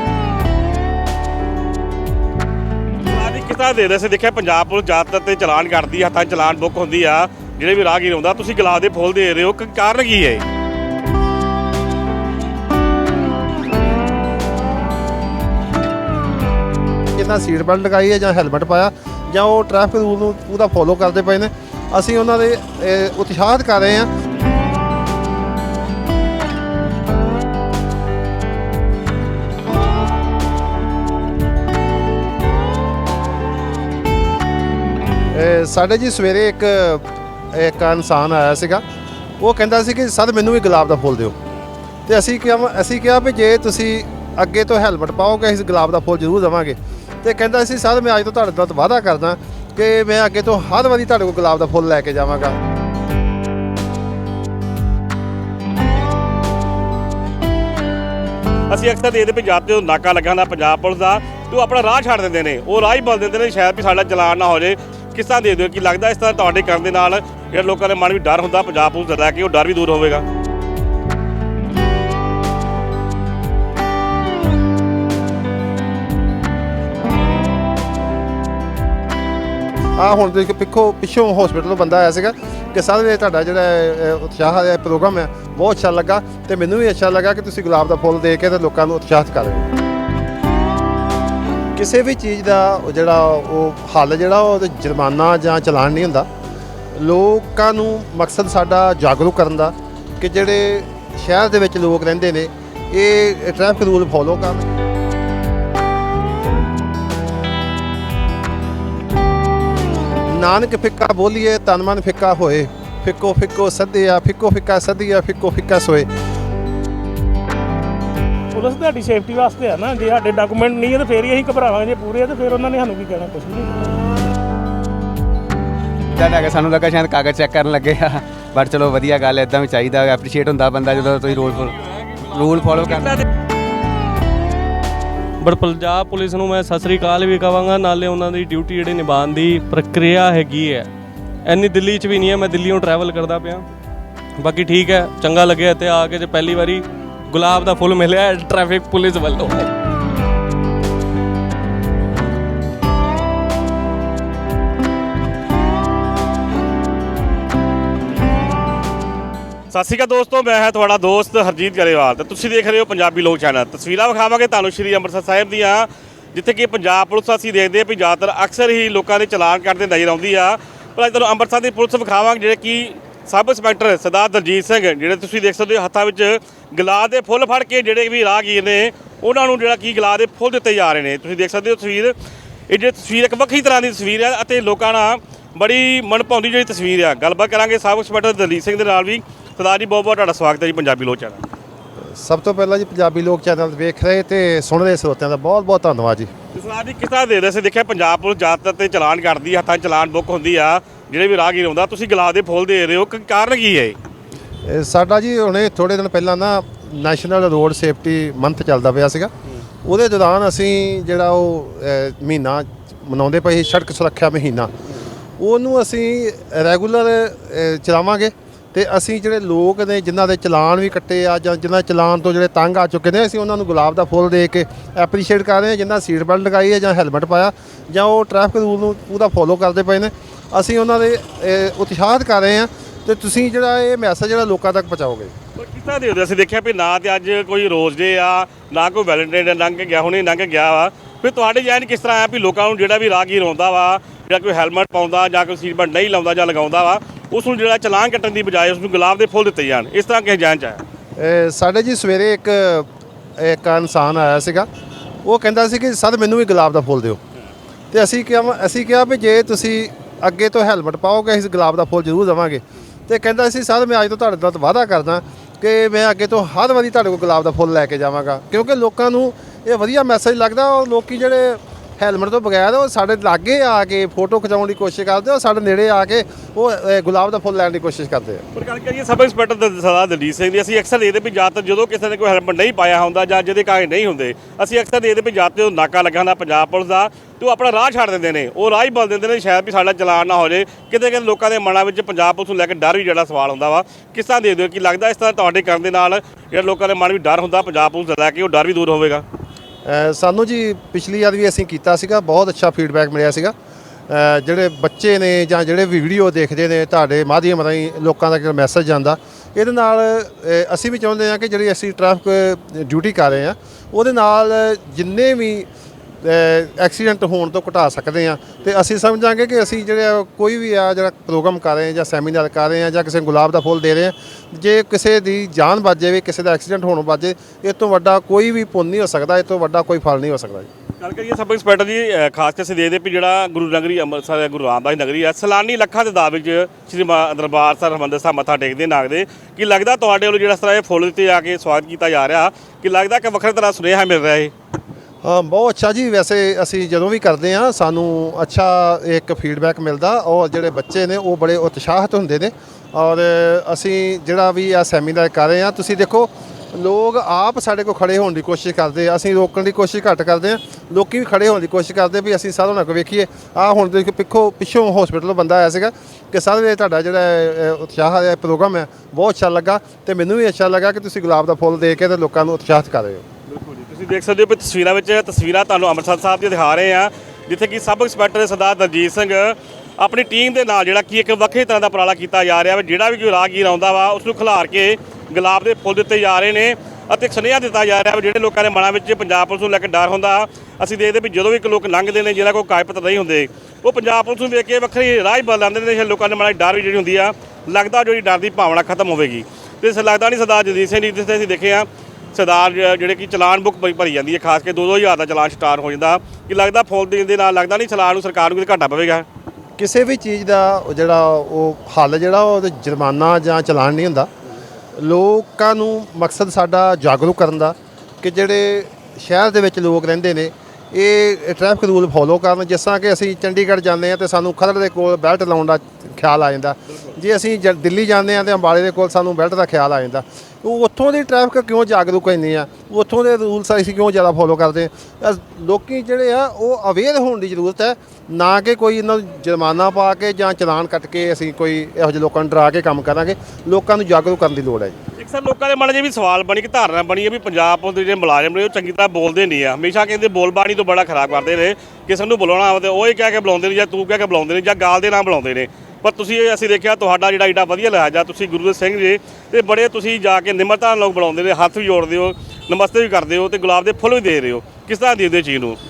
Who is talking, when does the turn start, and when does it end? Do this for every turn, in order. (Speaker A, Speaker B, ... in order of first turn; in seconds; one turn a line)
Speaker A: 3.0-10.4
Speaker B: 17.1-24.1
Speaker B: 35.3-38.8
Speaker B: 39.4-41.3
Speaker B: 42.1-52.5
Speaker A: 58.7-70.2
Speaker B: 80.0-89.7
Speaker B: 91.8-96.3
Speaker B: 96.9-104.6
Speaker B: 110.3-116.1
Speaker C: 118.5-124.0
Speaker D: 126.1-133.2
Speaker A: 132.7-133.2
Speaker E: 135.4-140.9
Speaker E: 141.4-143.6
Speaker E: 144.4-149.7
Speaker A: 159.7-182.2
Speaker A: 182.7-191.4
Speaker B: 192.1-196.3
Speaker A: 196.5-204.0
Speaker B: 204.7-209.3
Speaker B: 209.8-214.7
Speaker B: 215.4-235.3
Speaker A: 235.6-250.8
Speaker B: 251.2-254.7
Speaker B: 255.2-257.2
Speaker B: 257.9-278.4
Speaker A: 278.6-299.2
Speaker B: 299.9-303.5
Speaker B: 304.1-315.7
Speaker B: 316.2-330.7
Speaker A: 331.0-344.5
Speaker B: 345.2-373.2
Speaker A: 373.5-409.2
Speaker B: 409.8-414.3
Speaker B: 414.9-444.9
Speaker A: 445.2-465.8